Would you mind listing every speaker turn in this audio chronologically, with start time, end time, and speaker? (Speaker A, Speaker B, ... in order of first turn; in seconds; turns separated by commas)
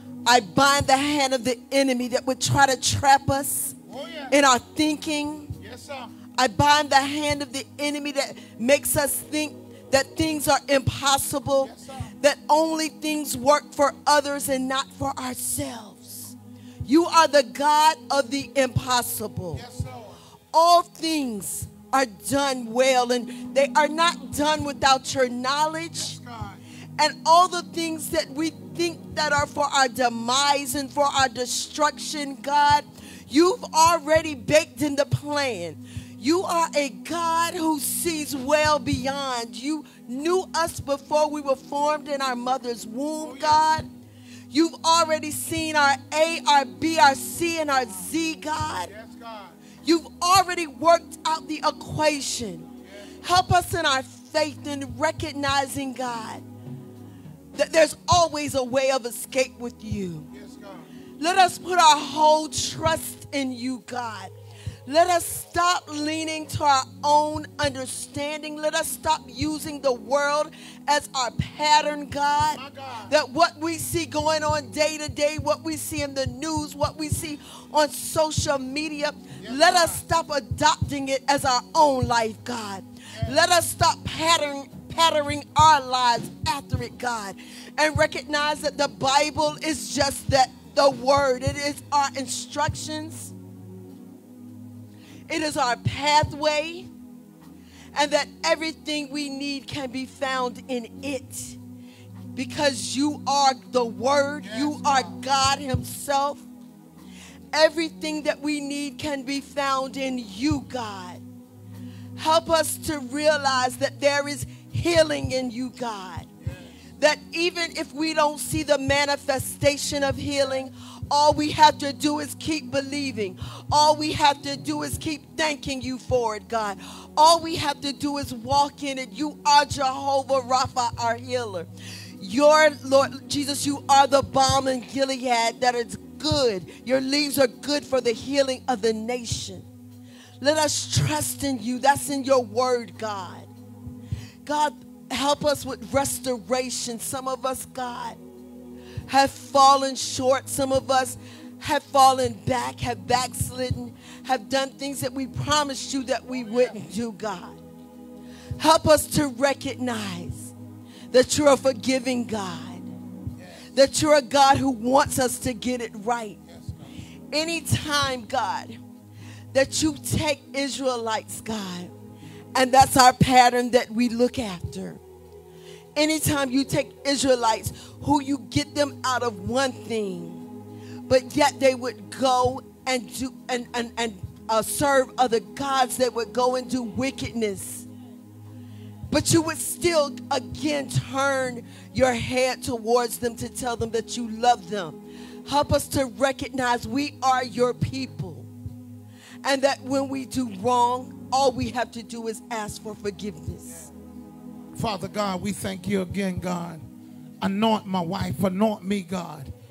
Speaker A: 0.3-3.8, Speaker B: 3.9-4.3, Speaker A: 4.3-5.6, Speaker B: 5.6-6.1, Speaker A: 6.4-19.6, Speaker B: 11.6-12.0, Speaker B: 19.6-20.1, Speaker A: 20.5-26.2, Speaker B: 26.1-26.6, Speaker A: 27.0-43.9, Speaker B: 43.2-43.6, Speaker A: 44.5-48.9, Speaker B: 49.0-49.5, Speaker A: 49.8-52.7, Speaker A: 53.2-56.4, Speaker A: 57.5-60.3, Speaker B: 60.4-60.8, Speaker A: 61.2-64.3, Speaker A: 64.9-93.3, Speaker B: 72.6-73.1, Speaker B: 79.4-80.0, Speaker A: 95.3-96.9, Speaker A: 98.0-101.6, Speaker A: 102.3-106.5, Speaker B: 104.5-104.9, Speaker A: 107.5-111.2, Speaker A: 112.2-116.3, Speaker A: 117.0-139.7, Speaker A: 140.4-143.5, Speaker A: 144.5-148.2, Speaker A: 149.1-157.6, Speaker A: 158.6-160.6, Speaker A: 161.1-162.9, Speaker A: 163.7-166.4, Speaker A: 167.3-168.8, Speaker A: 169.5-171.9, Speaker A: 172.6-175.0, Speaker A: 176.0-180.5, Speaker A: 181.1-187.9, Speaker A: 189.1-198.5, Speaker A: 199.4-203.8, Speaker B: 204.8-206.8, Speaker B: 207.4-209.5